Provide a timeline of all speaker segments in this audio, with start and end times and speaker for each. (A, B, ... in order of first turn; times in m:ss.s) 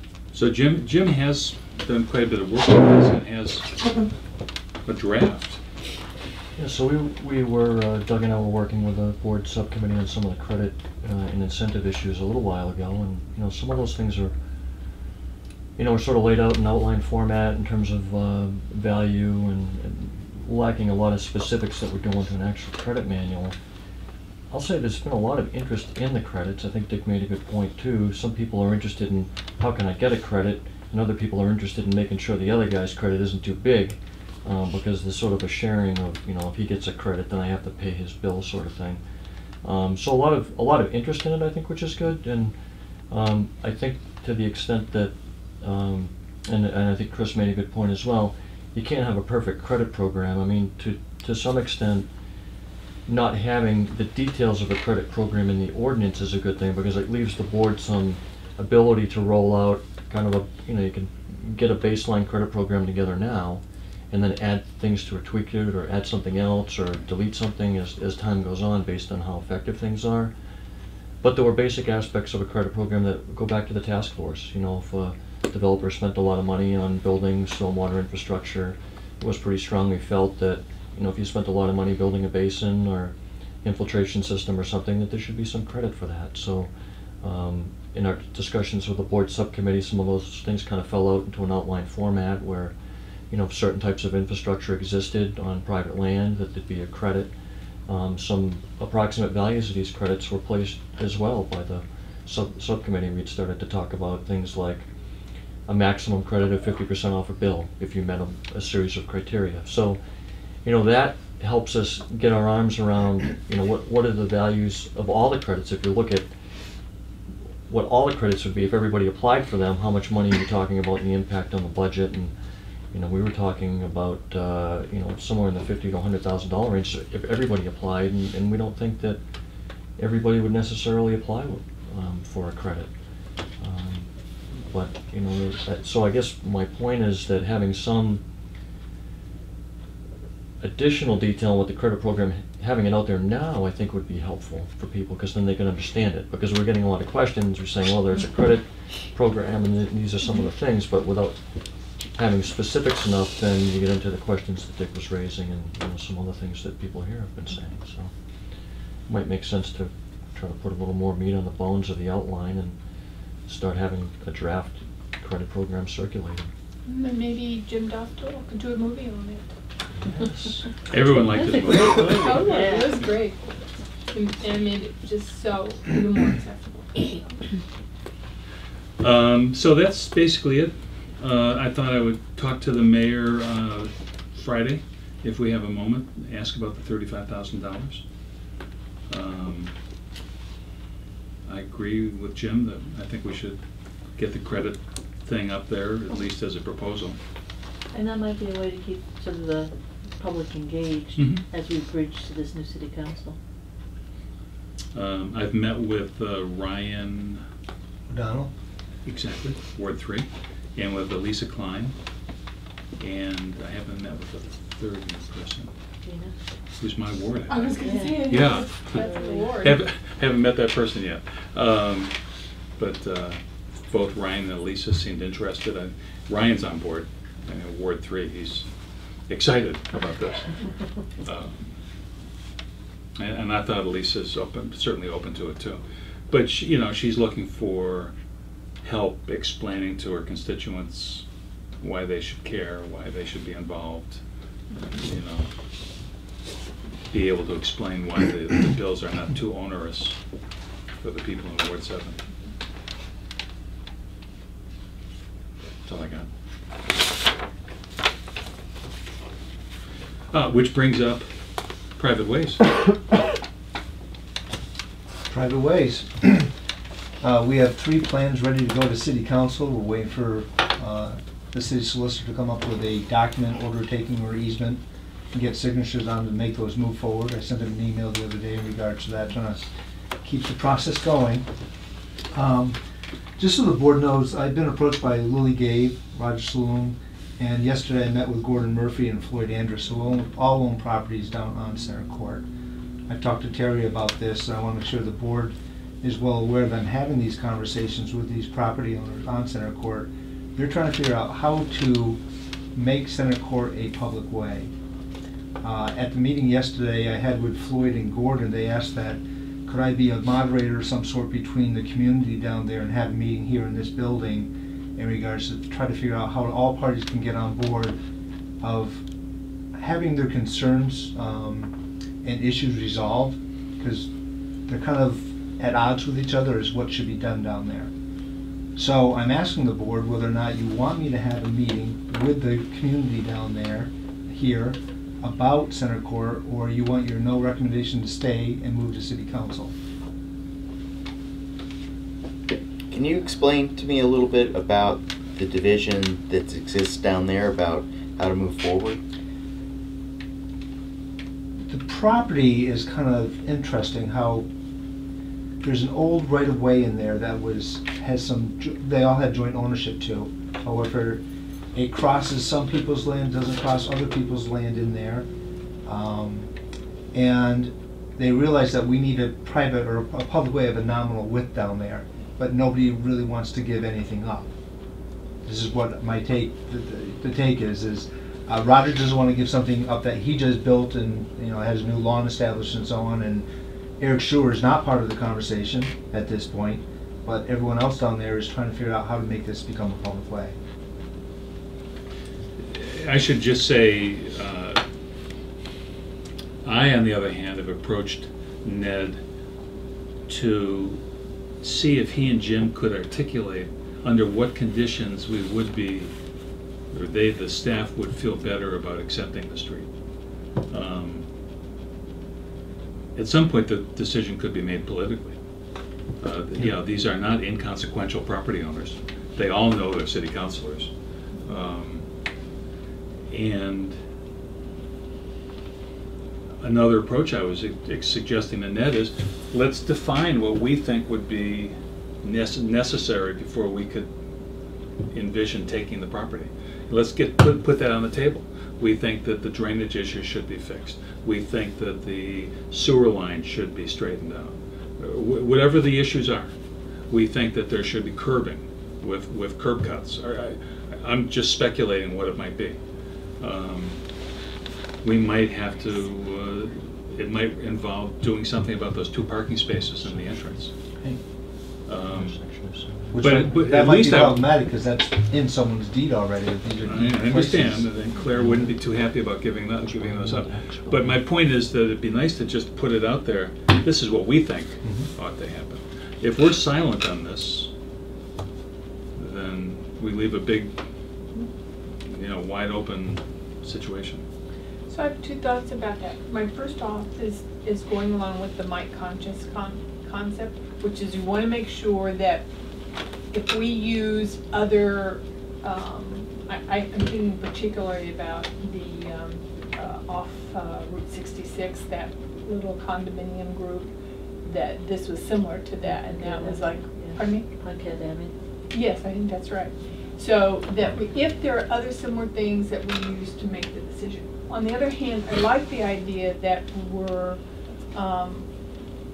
0:00.3-0:03.7 A
0:04.8-0:05.6 A
0:06.6-0:14.3 B
0:15.8-0:23.6 B
0:24.5-0:39.0 B
0:39.6-0:42.5 B
0:43.1-0:52.1 B
0:53.0-1:10.3 B
1:11.2-1:26.7 B
1:27.2-1:32.7 B
1:33.3-1:37.3 B
1:37.9-1:44.9 B
1:45.7-1:50.0 B
1:50.6-1:56.3 B
1:57.7-2:02.3 B
2:02.9-2:09.2 B
2:10.0-2:12.9 B
2:13.6-2:18.2 B
2:20.6-2:31.4 B
2:32.0-2:38.1 B
2:39.1-2:42.8 B
2:43.4-2:46.5 B
2:46.8-2:49.5 C
2:50.0-2:50.6 B
2:50.9-2:52.5 A
2:51.3-2:53.1 D
2:52.0-2:53.4 C
2:54.1-2:57.2 C
2:59.0-3:08.0 A
3:09.1-3:09.7 A
3:11.4-3:13.6 A
3:14.2-3:17.2 A
3:17.9-3:23.4 D
3:21.2-3:21.4 A
3:24.9-3:27.4 A
3:28.1-3:28.5 E
3:29.0-3:31.9 A
3:33.0-3:35.7 A
3:36.0-3:36.3 D
3:36.8-3:42.1 A
3:37.5-3:39.8 C
3:37.7-3:39.7 D
3:42.8-3:48.7 A
3:49.3-3:50.6 A
3:51.2-3:51.7 A
3:53.2-3:58.1 A
3:58.8-4:01.2 A
4:01.8-4:05.5 A
4:07.1-4:10.2 A
4:11.0-4:12.2 A
4:15.8-4:16.3 A
4:20.3-4:21.2 A
4:22.0-4:22.8 A
4:25.3-4:26.5 E
4:27.2-4:39.7 E
4:40.2-4:41.4 E
4:42.3-4:42.8 E
4:43.4-4:52.4 E
4:53.1-5:02.2 E
5:02.7-5:04.7 E
5:05.6-5:18.0 E
5:18.6-5:19.0 E
5:19.7-5:21.7 E
5:22.2-5:24.1 E
5:24.6-5:27.9 E
5:28.8-5:39.7 E
5:42.9-5:49.0 F
5:51.7-5:54.4 E
5:55.6-6:01.2 E
6:01.7-6:05.2 E
6:05.8-6:06.5 E
6:07.1-6:14.5 E
6:15.4-6:23.4 E
6:24.0-6:30.6 E
6:32.6-6:34.8 A
6:36.6-6:39.2 A
6:40.3-6:41.0 A
6:41.6-6:46.1 A
6:46.9-6:49.9 A
6:50.7-6:51.2 A
6:53.1-6:55.4 A
6:56.2-7:00.9 A
7:01.4-7:02.0 A
7:03.3-7:04.0 A
7:06.6-7:14.1 A
7:15.1-7:26.5 A
7:27.1-7:32.8 A
7:33.4-7:34.0 A
7:35.0-7:40.7 A
7:40.0-7:40.7 B
7:41.8-7:42.4 A
7:42.0-7:43.6 B
7:43.1-7:48.0 E
7:43.2-7:44.5 A
7:46.8-7:57.7 A
7:48.2-7:48.7 B
7:49.8-7:51.2 B
7:59.2-8:00.7 A
8:02.0-8:04.2 A
8:04.9-8:12.5 C
8:13.3-8:23.9 C
8:24.4-8:27.5 C
8:25.8-8:28.3 D
8:28.7-8:37.4 C
8:37.9-8:38.5 C